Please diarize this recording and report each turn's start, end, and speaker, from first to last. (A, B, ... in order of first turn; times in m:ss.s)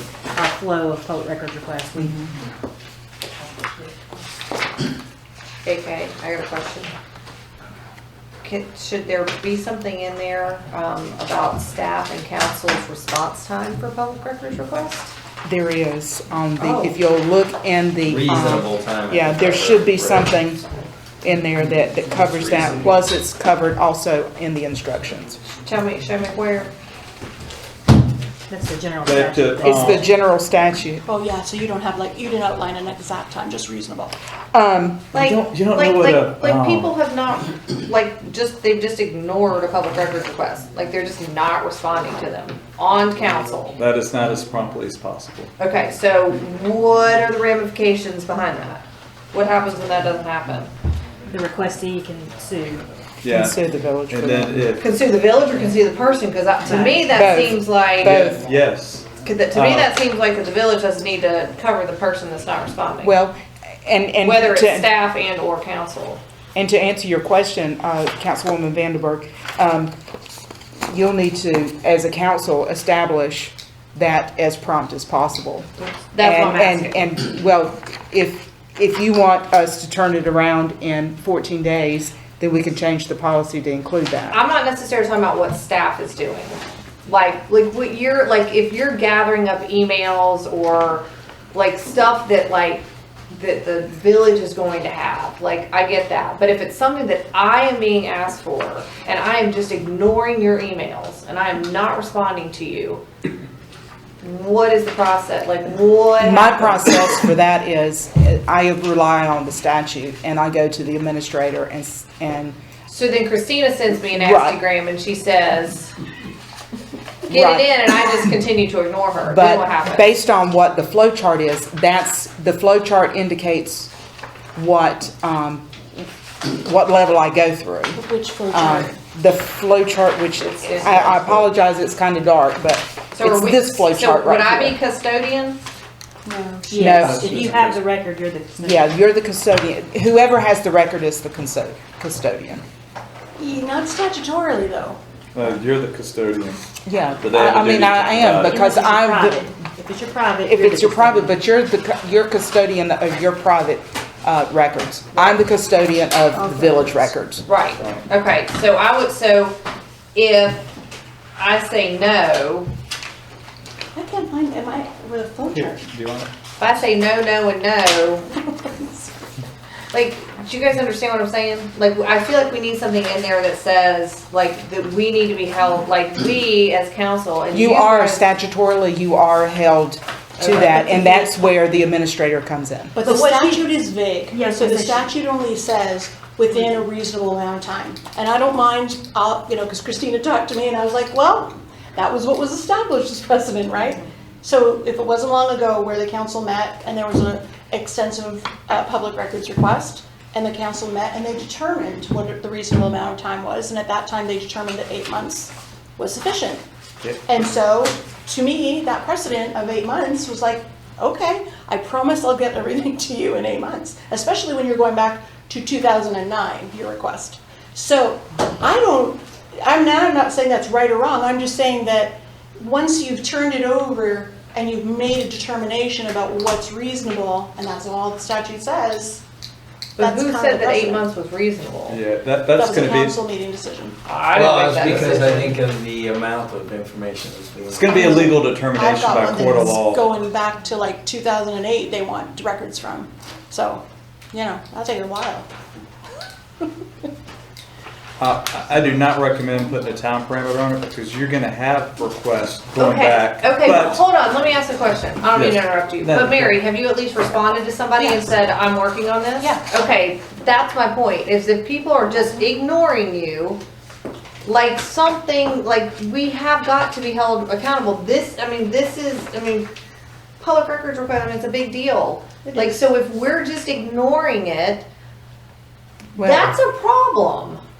0:00.3-0:02.3 A
0:05.6-0:06.9 B
0:08.4-0:15.1 B
0:15.4-0:20.6 C
0:16.6-0:17.0 B
0:18.0-0:20.4 D
0:21.2-0:25.4 C
0:22.2-0:23.0 D
0:25.6-0:26.7 B
0:28.5-0:30.0 A
0:29.0-0:30.0 E
0:29.6-0:31.0 C
0:31.0-0:34.1 F
0:34.5-0:35.1 C
0:35.1-0:36.9 E
0:35.1-0:43.8 B
0:43.7-0:45.5 E
0:45.6-0:50.7 B
0:51.3-0:52.9 A
0:53.2-0:53.6 E
0:53.3-0:54.5 C
0:54.1-0:54.8 E
0:54.8-0:58.3 B
0:56.6-0:57.1 A
0:57.1-0:58.4 C
0:58.0-0:59.9 E
0:59.2-1:03.1 B
1:03.0-1:04.9 C
1:04.2-1:06.2 B
1:06.5-1:09.9 C
1:10.9-1:15.7 C
1:15.8-1:17.0 B
1:16.2-1:24.4 C
1:24.3-1:43.0 B
1:44.2-1:47.1 B
1:46.2-1:52.6 C
1:52.9-1:55.9 B
1:54.1-1:54.6 C
1:57.3-1:57.8 C
1:57.3-2:00.1 B
1:59.3-2:03.9 C
2:04.6-2:14.8 C
2:07.9-2:09.0 F
2:10.4-2:11.5 B
2:13.1-2:15.6 B
2:16.2-2:17.5 F
2:16.7-2:18.9 A
2:16.7-2:17.4 C
2:17.0-2:17.8 E
2:18.6-2:22.6 C
2:23.4-2:25.0 F
2:25.3-2:26.6 E
2:26.8-2:29.5 C
2:27.2-2:28.6 E
2:28.3-2:31.4 A
2:30.4-2:37.4 C
2:36.3-2:36.8 A
2:37.4-2:39.6 B
2:40.1-2:40.6 B
2:41.4-2:42.7 B
2:43.9-2:45.8 F
2:45.5-2:46.3 E
2:46.6-2:48.3 B
2:48.6-2:49.1 F
2:49.9-2:58.2 B
2:57.5-3:03.0 C
3:00.4-3:00.7 B
3:00.4-3:01.3 F
3:02.9-3:26.6 F
3:03.0-3:03.8 A
3:04.3-3:05.1 A
3:27.0-3:27.4 E
3:27.2-3:49.2 F
3:50.0-3:52.0 B
3:50.0-3:51.0 F
3:51.9-3:53.2 E
3:52.5-3:54.0 F
3:54.0-3:55.6 B
3:54.3-3:58.4 D
3:57.7-4:00.0 E
3:57.9-4:05.5 F
4:08.2-4:14.0 E
4:12.8-4:23.6 B
4:15.3-4:16.6 E
4:18.0-4:18.3 A
4:19.4-4:19.9 A
4:24.4-4:29.7 B
4:30.4-4:34.9 B
4:32.4-4:32.8 F
4:36.2-4:36.5 C
4:36.2-4:37.6 B